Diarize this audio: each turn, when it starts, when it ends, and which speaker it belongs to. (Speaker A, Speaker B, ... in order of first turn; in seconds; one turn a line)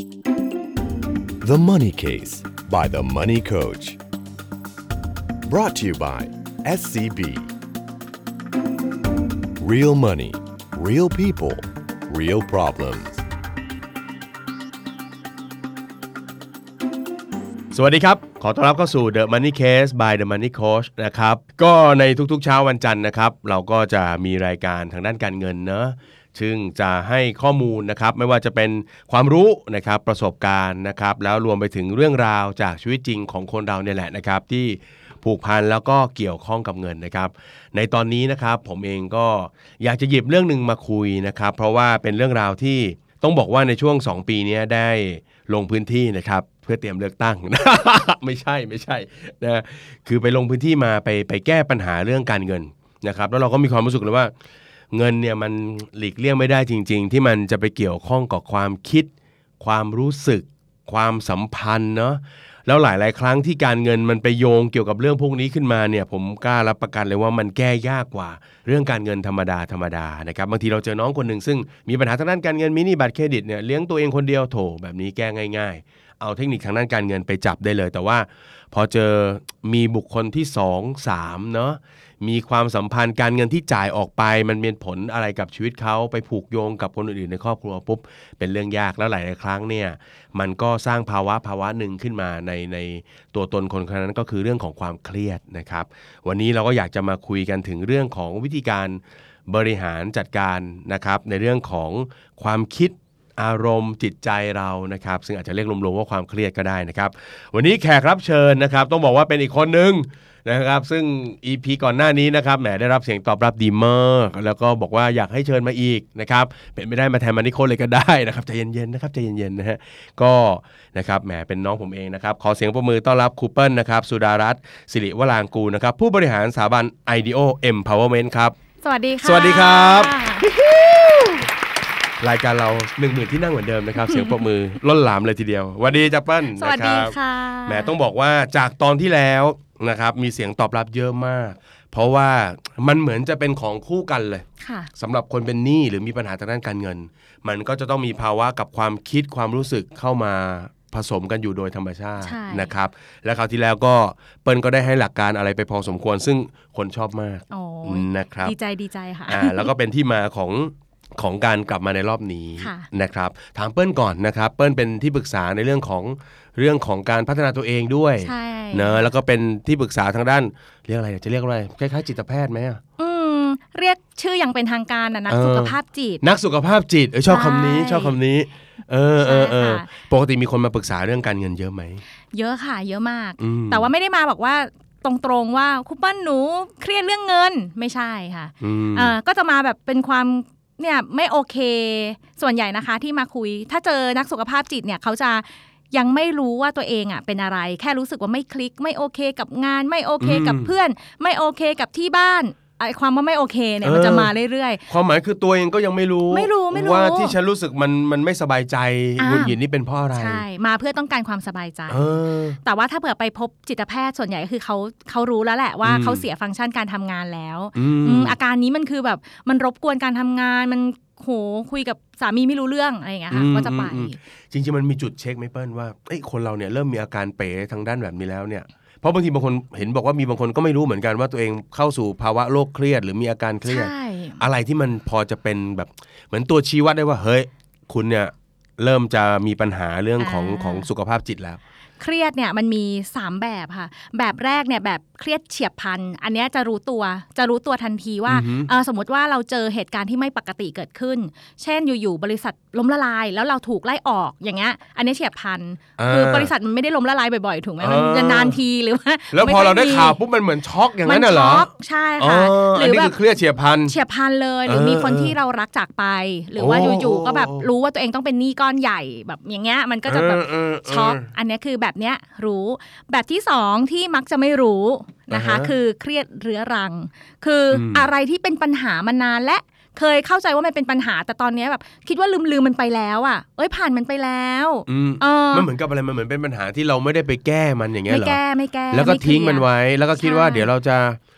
Speaker A: 1.4-4.0
Speaker A: 5.4-7.5
Speaker A: 9.6-13.2
Speaker B: 17.7-54.3
Speaker B: 54.9-128.6
Speaker C: 128.8-130.5
Speaker B: 129.2-131.5
Speaker B: 132.2-144.5
Speaker C: 136.6-137.9
Speaker C: 144.6-144.9
Speaker B: 145.0-158.6
Speaker C: 152.2-152.7
Speaker C: 157.5-159.7
Speaker B: 159.3-172.8
Speaker C: 162.6-162.9
Speaker C: 168.2-169.1
Speaker C: 173.0-176.2
Speaker B: 175.3-182.0
Speaker C: 177.3-178.2
Speaker C: 179.2-179.9
Speaker C: 182.3-204.8
Speaker B: 183.4-183.9
Speaker B: 188.6-189.2
Speaker B: 200.2-200.7
Speaker B: 203.8-204.3
Speaker B: 204.9-210.4
Speaker C: 206.3-207.3
Speaker C: 209.2-209.6
Speaker C: 210.2-212.0
Speaker B: 211.9-212.6
Speaker C: 212.6-224.2
Speaker B: 215.8-216.2
Speaker B: 217.8-218.4
Speaker B: 223.3-241.6
Speaker C: 233.7-234.4
Speaker C: 240.2-240.9
Speaker C: 242.0-260.2
Speaker B: 248.3-248.7
Speaker B: 256.0-256.5
Speaker B: 257.8-258.6
Speaker B: 259.3-263.9
Speaker C: 261.1-263.1
Speaker C: 263.9-285.7
Speaker B: 264.7-265.4
Speaker B: 266.6-267.7
Speaker B: 270.1-271.3
Speaker B: 275.3-275.7
Speaker B: 277.7-278.1
Speaker B: 284.9-288.4
Speaker C: 288.1-289.7
Speaker B: 288.9-291.2
Speaker C: 290.2-290.7